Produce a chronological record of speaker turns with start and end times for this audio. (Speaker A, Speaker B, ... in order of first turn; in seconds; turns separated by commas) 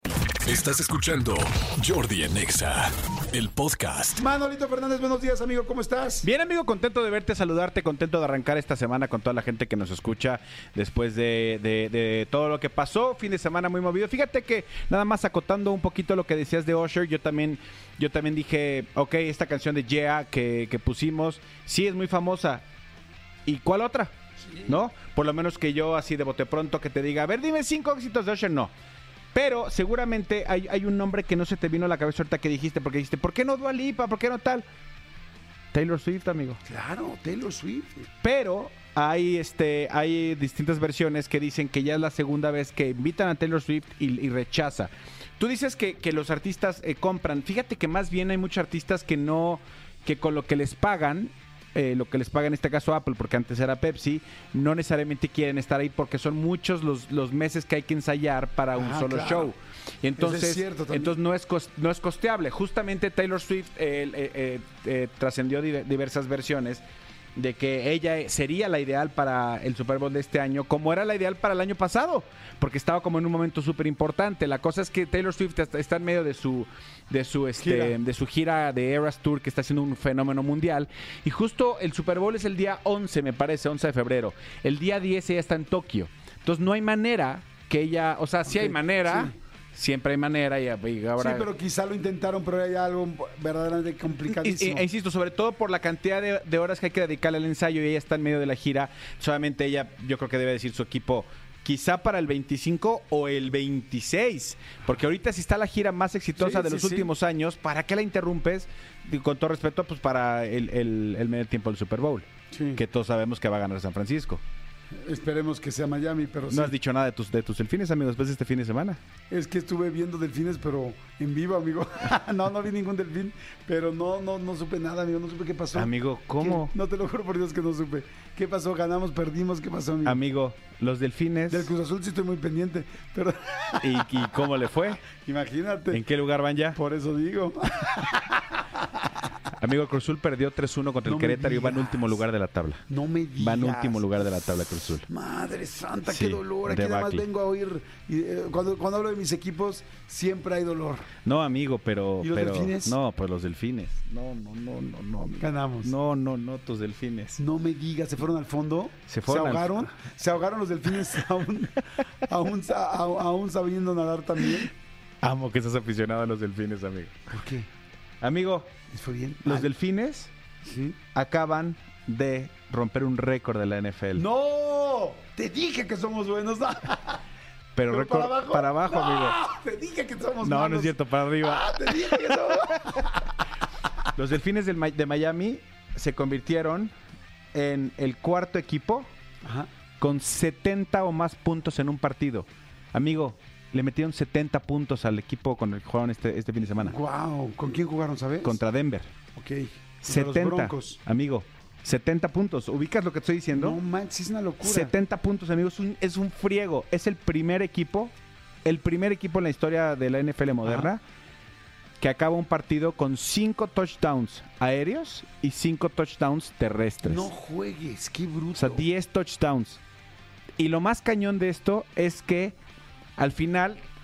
Speaker A: 0.4-4.2, Speaker B: 4.2-6.3, Speaker C: 6.2-22.6, Speaker C: 23.4-24.1, Speaker C: 24.6-28.7, Speaker C: 29.3-34.7, Speaker C: 35.7-36.6, Speaker B: 36.6-38.1, Speaker C: 38.2-66.8, Speaker B: 58.8-59.5, Speaker B: 60.2-61.1, Speaker C: 67.4-91.5, Speaker B: 77.6-78.0, Speaker B: 88.6-89.3, Speaker B: 91.2-94.8, Speaker C: 94.3-114.4, Speaker B: 106.4-107.1, Speaker B: 112.5-112.8, Speaker B: 115.0-116.7, Speaker C: 116.5-119.0, Speaker B: 119.3-130.2, Speaker C: 125.7-126.7, Speaker C: 130.1-131.7, Speaker B: 131.5-134.4, Speaker C: 133.8-135.1, Speaker B: 135.1-136.0, Speaker C: 135.9-136.8, Speaker B: 136.8-139.1, Speaker C: 139.6-142.8, Speaker B: 141.1-142.2, Speaker B: 142.9-144.5, Speaker C: 143.4-145.1, Speaker B: 145.1-151.1, Speaker C: 146.1-147.2, Speaker C: 151.2-157.4, Speaker B: 152.2-153.0, Speaker B: 155.4-155.9, Speaker B: 157.4-164.7, Speaker C: 159.1-159.9, Speaker C: 165.2-167.2, Speaker B: 167.3-167.7, Speaker C: 168.2-168.7, Speaker B: 168.9-169.7, Speaker C: 169.4-170.3, Speaker B: 170.6-171.0, Speaker C: 171.1-174.2, Speaker B: 174.2-177.2, Speaker C: 177.8-179.4, Speaker B: 177.9-183.3, Speaker C: 180.4-183.0, Speaker C: 184.2-186.9, Speaker C: 187.5-189.1, Speaker B: 189.4-189.7, Speaker C: 190.0-197.0, Speaker B: 196.8-198.6, Speaker C: 198.4-199.1, Speaker B: 199.3-201.0, Speaker C: 200.0-203.8, Speaker B: 203.5-204.9, Speaker C: 204.6-208.1, Speaker C: 208.7-211.0, Speaker B: 210.7-210.9, Speaker C: 212.0-217.3, Speaker B: 217.0-218.9, Speaker C: 218.6-219.8, Speaker C: 220.6-222.6, Speaker C: 223.2-223.8